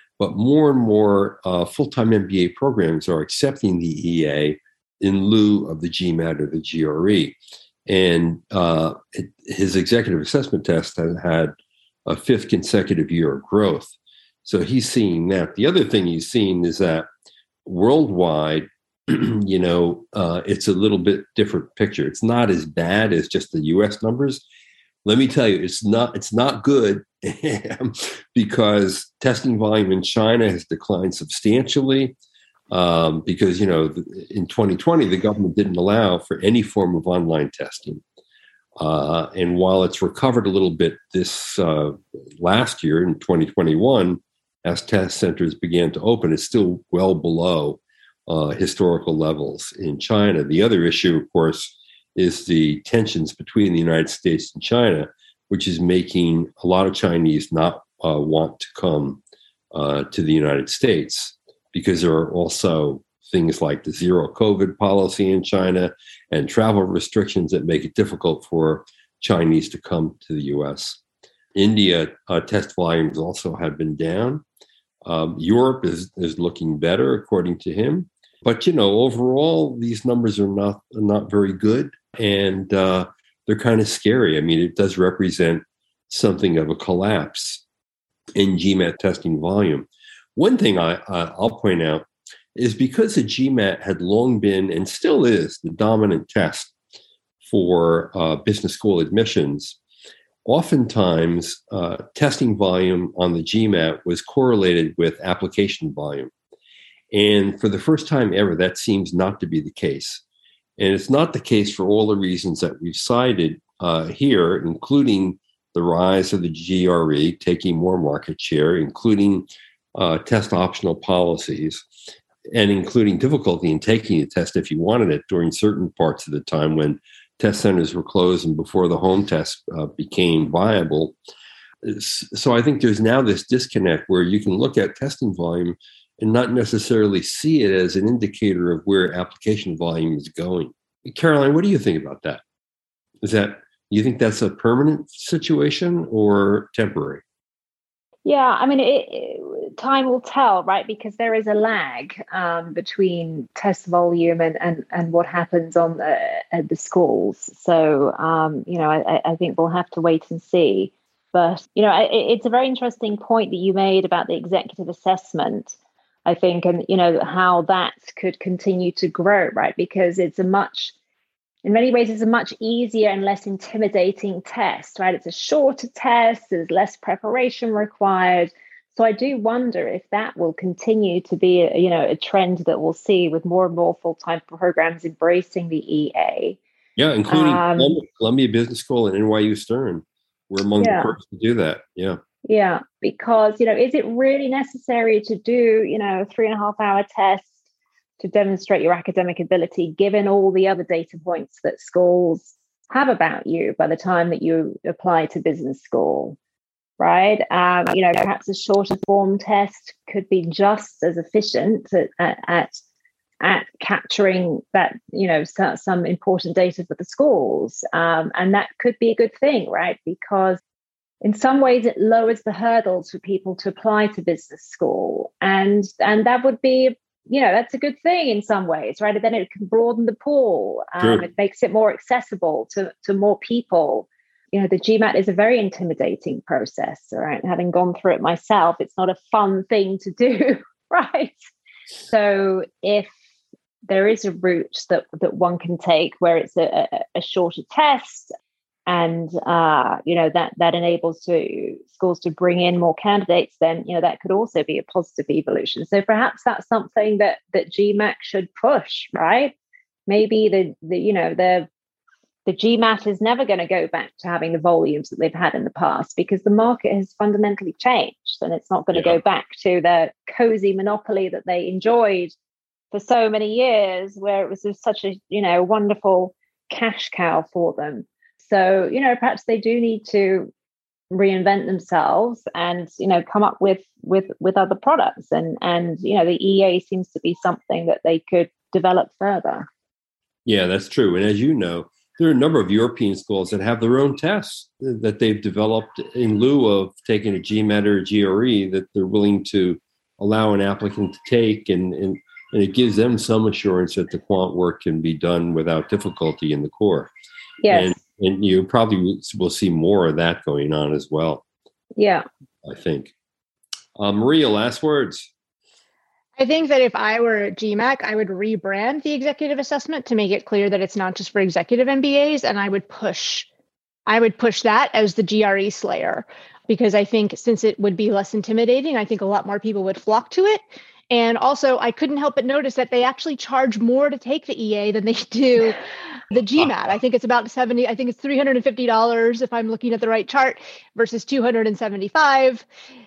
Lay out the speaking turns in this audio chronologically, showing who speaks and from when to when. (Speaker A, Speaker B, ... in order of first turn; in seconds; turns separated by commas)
Speaker A: 0.2-11.5, Speaker A: 12.1-17.1, Speaker A: 17.6-24.4, Speaker A: 25.0-32.1, Speaker A: 32.7-38.0, Speaker A: 38.8-59.2, Speaker A: 59.7-71.0, Speaker A: 71.5-74.4, Speaker A: 75.0-87.6, Speaker A: 88.3-96.7, Speaker A: 97.4-99.8, Speaker A: 100.4-106.3, Speaker A: 107.1-110.2, Speaker A: 110.8-121.8, Speaker A: 122.5-131.2, Speaker A: 131.8-142.4, Speaker A: 143.2-147.2, Speaker B: 148.2-170.9, Speaker B: 171.6-186.6, Speaker A: 187.0-192.2, Speaker B: 187.3-188.0, Speaker B: 190.8-191.1, Speaker B: 192.4-197.5, Speaker B: 198.2-206.4, Speaker B: 207.0-212.8, Speaker B: 213.4-220.6, Speaker B: 221.2-241.4, Speaker A: 231.0-231.2, Speaker B: 242.1-243.1, Speaker B: 243.8-248.3, Speaker B: 248.9-259.5, Speaker B: 260.1-261.7, Speaker B: 262.4-272.3, Speaker A: 268.9-269.2, Speaker B: 272.9-280.5, Speaker B: 281.1-289.7, Speaker A: 290.4-307.1, Speaker B: 307.6-308.0, Speaker A: 307.7-311.4, Speaker B: 311.9-312.2, Speaker A: 312.6-313.1, Speaker A: 313.9-315.3, Speaker C: 316.4-323.5, Speaker C: 324.1-335.8, Speaker C: 336.3-342.6